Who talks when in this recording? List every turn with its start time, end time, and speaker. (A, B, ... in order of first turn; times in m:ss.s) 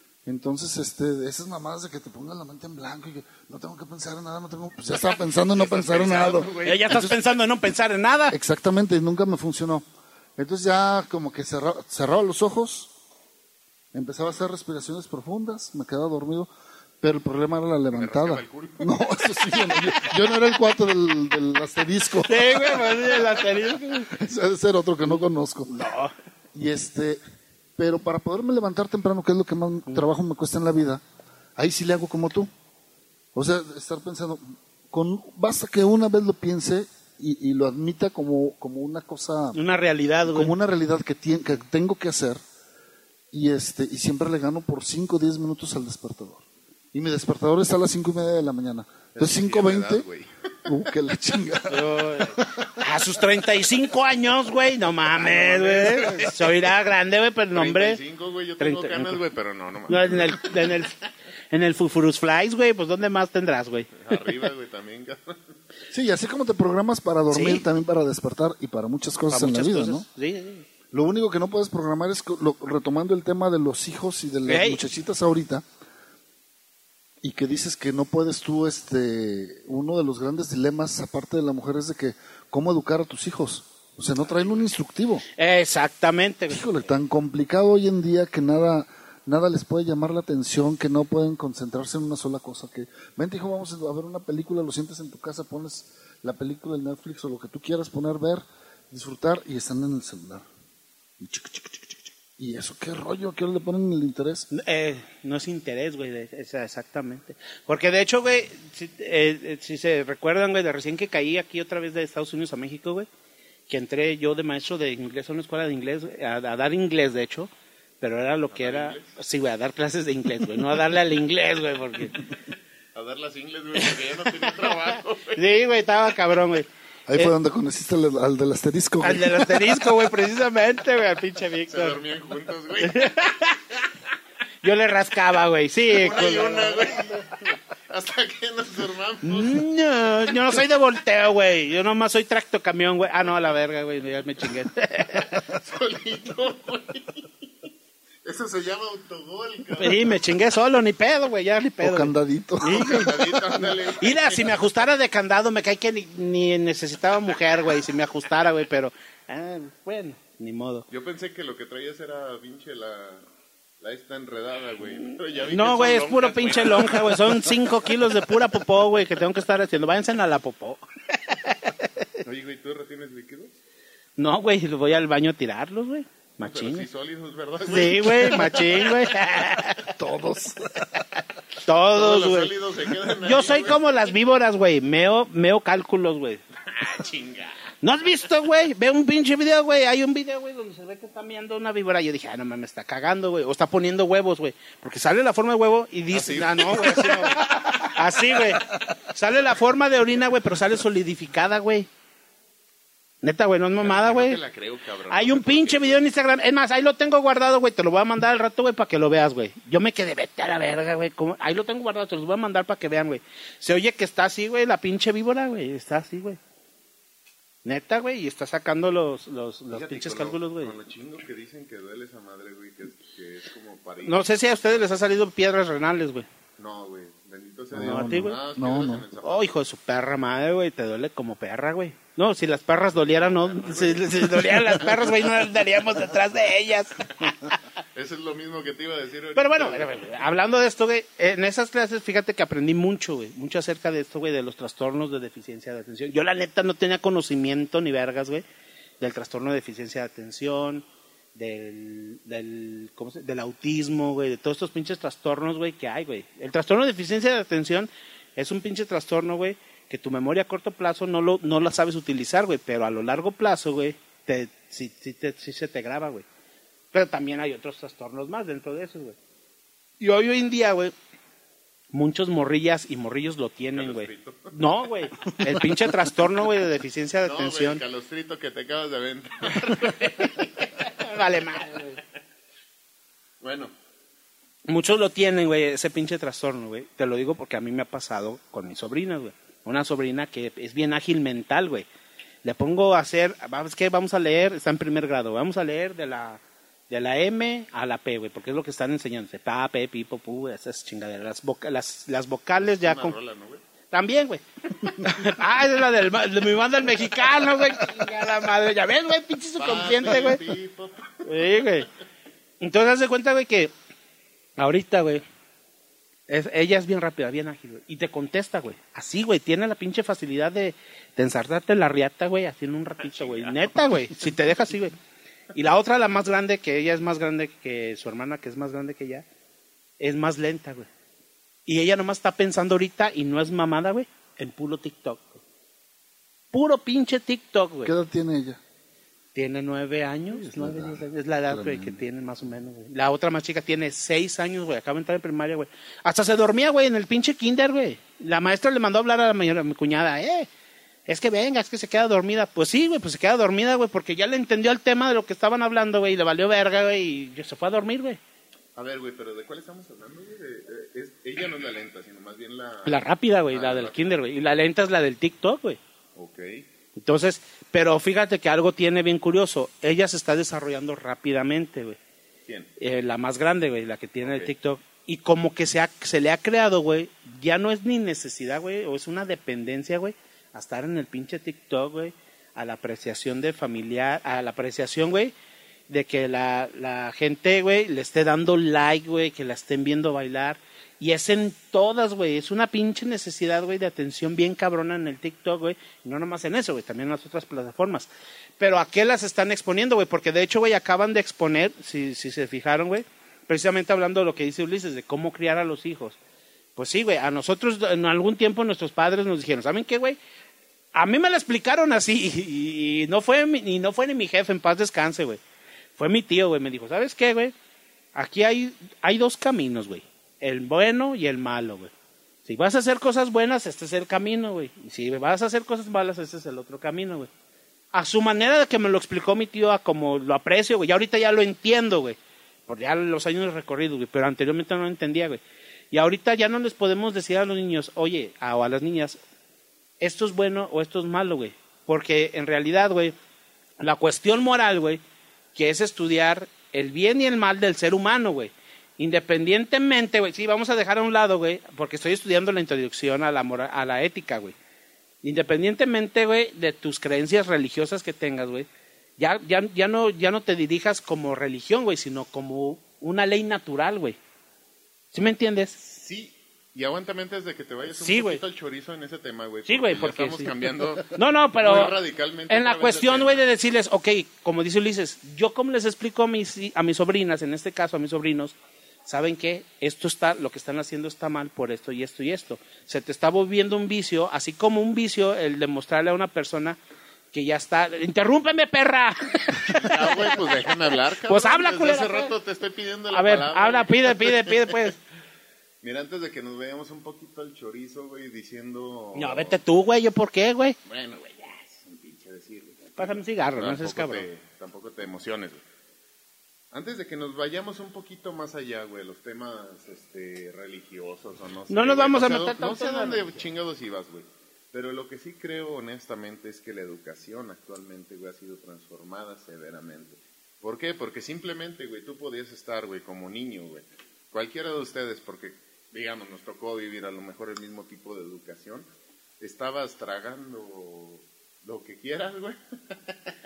0:00.3-0:07.0 A
0:05.0-0:07.2 B
0:06.6-0:08.4 C
0:08.3-0:09.8 A
0:10.4-0:12.9 A
0:13.9-0:16.5 A
0:17.0-0:22.6 A
0:17.9-0:19.8 B
0:22.2-0:24.1 C
0:24.1-0:25.8 A
0:25.7-0:26.1 C
0:26.6-0:27.2 A
0:27.8-0:31.0 A
0:31.6-0:32.5 A
0:33.3-0:39.6 A
0:39.5-0:40.5 C
0:40.3-0:42.4 A
0:43.3-0:50.0 A
0:49.2-0:50.8 B
0:50.7-0:52.7 A
0:51.7-0:58.0 C
0:55.2-0:56.4 B
0:57.5-1:00.8 B
0:58.6-0:59.2 C
0:59.9-1:00.9 C
1:01.5-1:04.0 C
1:04.0-1:05.5 B
1:05.9-1:10.1 A
1:07.3-1:07.6 C
1:09.3-1:10.6 C
1:10.9-1:15.6 A
1:14.5-1:14.8 C
1:17.2-1:25.2 A
1:25.4-1:26.6 C
1:26.5-1:40.5 A
1:41.2-1:44.5 A
1:44.5-1:53.1 C
1:53.7-2:02.2 C
1:58.5-1:59.1 B
2:03.0-2:05.4 B
2:05.4-2:07.3 C
2:07.1-2:09.7 A
2:09.0-2:12.0 C
2:11.7-2:13.2 B
2:12.8-2:13.6 C
2:14.6-2:17.1 C
2:15.9-2:19.6 B
2:19.2-2:25.4 C
2:25.5-2:27.3 B
2:28.2-2:30.2 B
2:29.8-2:33.2 C
2:31.8-2:33.4 A
2:32.7-2:34.6 B
2:34.0-2:40.9 C
2:40.9-2:43.2 B
2:43.8-2:47.6 B
2:45.5-2:51.6 C
2:52.2-2:53.6 B
2:54.2-2:56.9 C
2:56.4-2:59.1 B
2:57.7-2:59.8 C
3:00.0-3:00.8 A
3:01.6-3:02.5 C
3:02.0-3:03.9 B
3:03.2-3:06.4 C
3:06.7-3:07.7 B
3:07.8-3:21.9 C
3:16.1-3:17.9 B
3:23.2-3:24.4 C
3:23.8-3:26.0 B
3:25.1-3:36.4 C
3:37.6-3:40.8 C
3:39.7-3:45.2 B
3:44.0-3:46.3 C
3:46.6-3:49.5 B
3:47.7-3:49.0 A
3:47.8-3:48.4 C
3:49.2-3:57.6 C
3:53.1-3:55.1 B
3:58.0-4:00.1 B
3:59.4-4:08.4 C
4:09.0-4:10.8 C
4:11.4-4:26.2 C
4:26.9-4:29.2 C
4:30.0-4:30.9 C
4:31.9-4:37.8 C
4:33.7-4:34.5 B
4:37.2-4:40.9 B
4:40.8-4:42.0 C
4:43.4-4:43.7 B
4:44.7-4:51.9 C
4:52.4-5:03.2 C
5:02.6-5:03.6 B
5:03.9-5:10.4 C
5:09.6-5:11.6 B
5:11.3-5:11.9 C
5:12.6-5:13.7 C
5:14.6-5:15.2 C
5:16.3-5:25.0 C
5:23.0-5:24.6 B
5:25.6-5:29.3 C
5:30.0-5:30.9 C
5:31.7-5:35.4 C
5:36.5-5:37.9 C
5:37.8-5:38.6 A
5:39.4-5:50.5 C
5:40.3-5:42.0 A
5:51.1-5:58.2 C
5:58.8-6:04.1 B
6:02.8-6:05.8 C
6:06.2-6:06.6 B
6:07.0-6:12.0 C
6:12.8-6:25.3 C
6:14.2-6:14.5 B
6:25.9-6:46.2 C
6:46.8-6:50.2 C
6:50.9-6:55.4 C
6:56.0-6:57.5 C
6:58.2-7:01.9 C
7:02.5-7:07.3 C
7:07.9-7:15.4 C
7:15.9-7:19.2 C
7:20.0-7:23.2 C
7:23.8-7:25.0 C
7:25.6-7:34.6 C
7:35.2-7:38.7 C
7:39.2-7:44.2 C
7:45.1-7:45.8 C
7:45.8-7:53.4 B
7:48.0-7:48.4 C
7:49.7-7:50.5 C
7:51.1-7:52.0 C
7:52.5-7:58.6 C
7:59.1-8:06.8 C
8:07.3-8:10.3 C
8:09.7-8:14.8 B
8:11.3-8:12.3 C
8:13.1-8:15.0 C
8:15.8-8:19.6 B
8:19.2-8:20.8 C
8:20.9-8:25.6 B
8:23.0-8:24.3 C
8:26.7-8:48.9 B
8:31.7-8:33.3 C
8:49.4-8:53.3 B